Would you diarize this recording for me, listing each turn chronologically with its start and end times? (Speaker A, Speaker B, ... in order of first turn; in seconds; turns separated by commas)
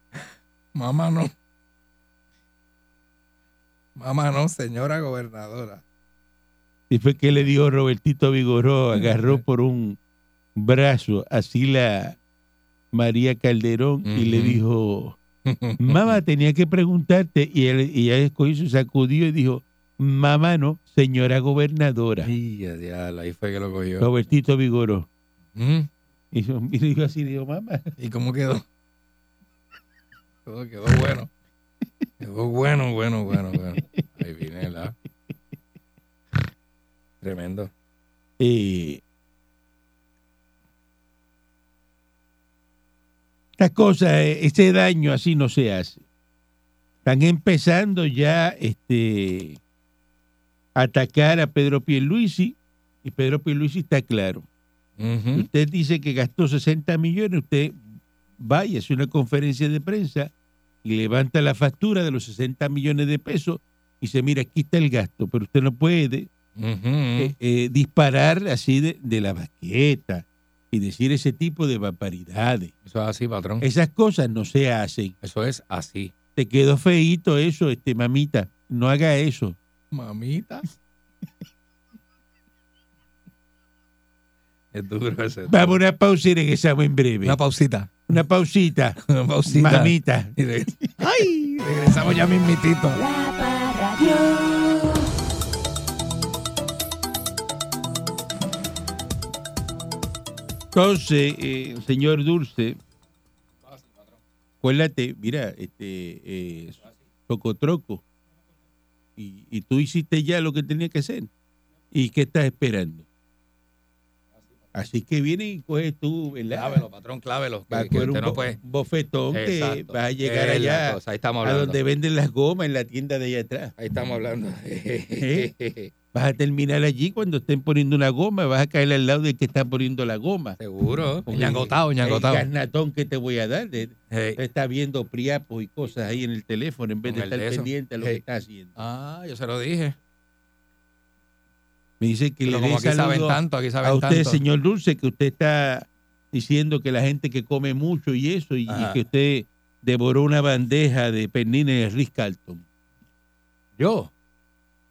Speaker A: 0.8-1.3, Speaker A: 4.0-5.8, Speaker B: 6.9-10.0, Speaker A: 9.0-9.4, Speaker B: 10.6-12.2, Speaker B: 12.9-15.2, Speaker A: 14.1-14.6, Speaker A: 15.5-16.2, Speaker B: 15.8-22.3, Speaker A: 22.2-24.1, Speaker B: 24.0-25.1, Speaker A: 25.6-25.9, Speaker B: 26.3-27.9, Speaker A: 28.0-28.6, Speaker A: 30.5-31.3, Speaker A: 32.2-35.0, Speaker B: 33.5-34.0, Speaker A: 37.2-37.7, Speaker B: 38.4-39.0, Speaker B: 43.6-46.0, Speaker B: 47.0-49.6, Speaker B: 50.8-54.5, Speaker A: 55.0-55.5, Speaker B: 55.4-57.8, Speaker B: 58.4-60.3, Speaker B: 60.8-66.3, Speaker A: 66.6-67.3, Speaker B: 67.2-72.7, Speaker A: 72.9-73.7, Speaker B: 73.6-75.1, Speaker A: 75.2-76.1, Speaker B: 76.4-79.6, Speaker A: 79.9-80.7, Speaker A: 84.7-85.8, Speaker B: 85.5-87.4, Speaker A: 87.2-88.0, Speaker B: 88.1-90.3, Speaker A: 89.1-93.0, Speaker C: 93.0-95.0, Speaker B: 100.7-102.8, Speaker B: 104.6-108.0, Speaker B: 109.2-111.3, Speaker B: 111.9-113.0, Speaker B: 114.7-116.8, Speaker A: 116.5-118.6, Speaker B: 117.7-123.7, Speaker A: 119.3-121.8, Speaker A: 123.8-125.9, Speaker B: 125.2-125.5, Speaker B: 126.1-130.6, Speaker A: 130.6-132.5, Speaker B: 131.3-138.8, Speaker A: 134.1-134.4, Speaker A: 137.1-138.2, Speaker A: 138.8-140.0, Speaker B: 142.0-152.6, Speaker A: 142.5-144.4, Speaker A: 148.7-149.0, Speaker A: 153.8-154.1